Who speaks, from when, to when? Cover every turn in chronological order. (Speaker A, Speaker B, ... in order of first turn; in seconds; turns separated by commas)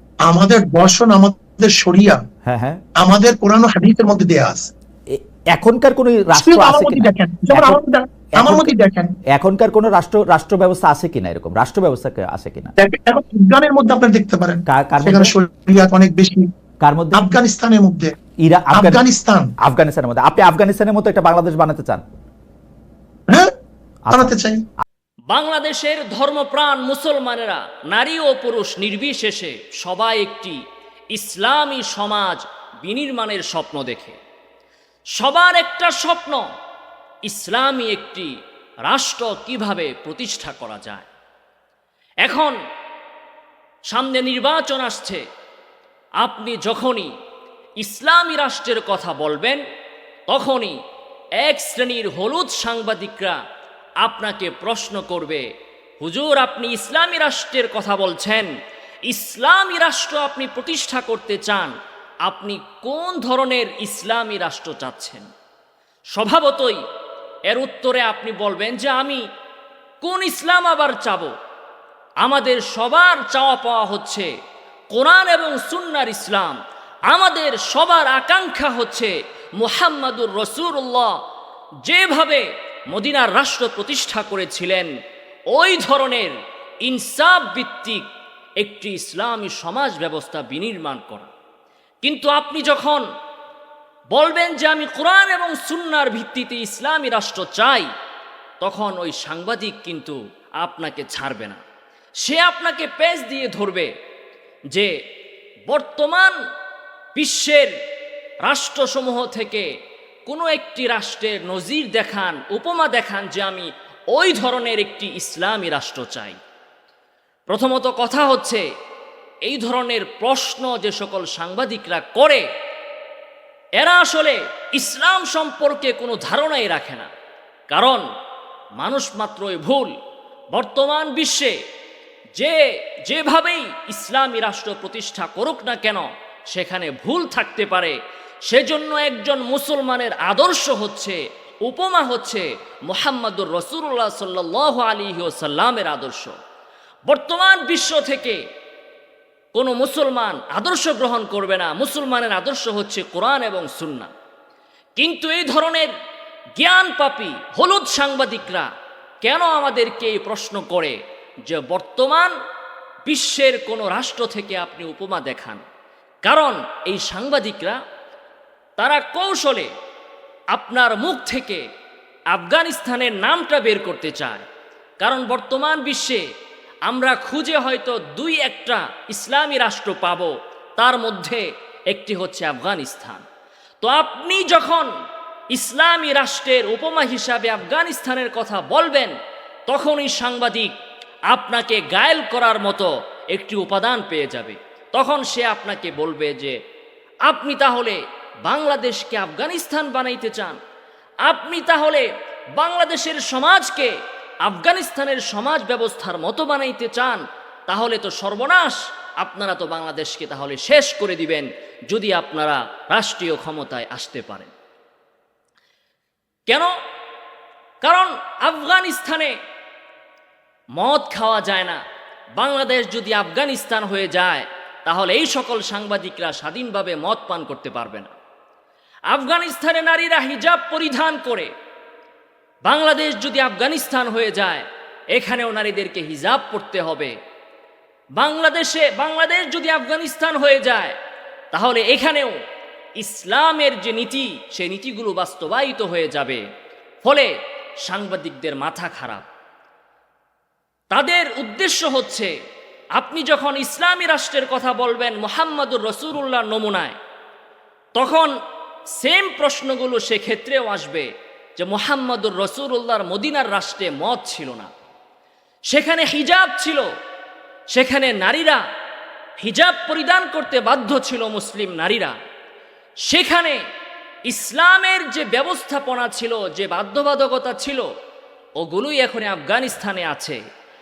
Speaker A: 0.2-2.2, Speaker B: 2.5-2.8, Speaker A: 3.0-4.7, Speaker B: 5.1-7.8, Speaker A: 6.3-9.2, Speaker B: 8.3-8.7, Speaker B: 9.3-12.7, Speaker A: 12.8-16.5, Speaker B: 14.7-15.3, Speaker B: 16.8-17.3, Speaker A: 17.1-18.1, Speaker B: 18.4-19.0, Speaker A: 18.7-19.5, Speaker B: 19.6-22.0, Speaker B: 24.1-24.4, Speaker A: 24.1-24.6, Speaker C: 25.3-30.6, Speaker C: 31.1-34.2, Speaker C: 35.2-36.5, Speaker C: 37.3-38.3, Speaker C: 38.9-41.1, Speaker C: 42.2-42.6, Speaker C: 43.9-45.2, Speaker C: 46.2-47.1, Speaker C: 47.8-49.6, Speaker C: 50.3-50.8, Speaker C: 51.4-53.4, Speaker C: 54.0-55.5, Speaker C: 56.0-58.5, Speaker C: 59.1-61.8, Speaker C: 62.3-65.3, Speaker C: 66.1-66.8, Speaker C: 67.5-69.2, Speaker C: 70.0-71.3, Speaker C: 72.2-74.3, Speaker C: 74.9-76.6, Speaker C: 77.1-81.2, Speaker C: 81.8-84.9, Speaker C: 85.5-88.1, Speaker C: 88.6-91.3, Speaker C: 92.0-93.0, Speaker C: 94.1-97.9, Speaker C: 98.6-101.6, Speaker C: 102.2-103.9, Speaker C: 105.7-106.3, Speaker C: 107.2-107.7, Speaker C: 108.5-109.7, Speaker C: 110.3-116.4, Speaker C: 117.5-118.7, Speaker C: 119.5-122.5, Speaker C: 123.8-127.1, Speaker C: 127.7-128.1, Speaker C: 128.8-129.9, Speaker C: 130.5-131.6, Speaker C: 132.4-146.4, Speaker C: 147.1-148.4, Speaker C: 149.6-154.1, Speaker C: 155.0-155.9, Speaker C: 156.6-158.7, Speaker C: 159.2-162.3, Speaker C: 163.1-165.6, Speaker C: 166.3-167.8, Speaker C: 168.8-169.7, Speaker C: 170.5-171.7, Speaker C: 172.3-174.5, Speaker C: 175.0-176.2, Speaker C: 176.9-183.2, Speaker C: 183.8-184.9, Speaker C: 185.5-189.1, Speaker C: 189.7-190.7, Speaker C: 191.3-196.6, Speaker C: 197.3-200.6, Speaker C: 201.2-203.9, Speaker C: 204.4-214.5, Speaker C: 216.5-216.7, Speaker C: 217.8-219.3, Speaker C: 220.8-221.8, Speaker C: 222.4-228.1, Speaker C: 229.1-231.5, Speaker C: 232.7-237.1, Speaker C: 238.2-241.0, Speaker C: 241.5-242.4, Speaker C: 243.0-246.4, Speaker C: 247.0-247.3, Speaker C: 247.8-249.2, Speaker C: 250.9-252.3, Speaker C: 253.0-257.0, Speaker C: 258.0-258.3, Speaker C: 259.0-264.7, Speaker C: 265.7-266.9, Speaker C: 267.7-268.6, Speaker C: 269.4-272.1, Speaker C: 273.1-273.6, Speaker C: 274.3-277.9, Speaker C: 278.6-280.4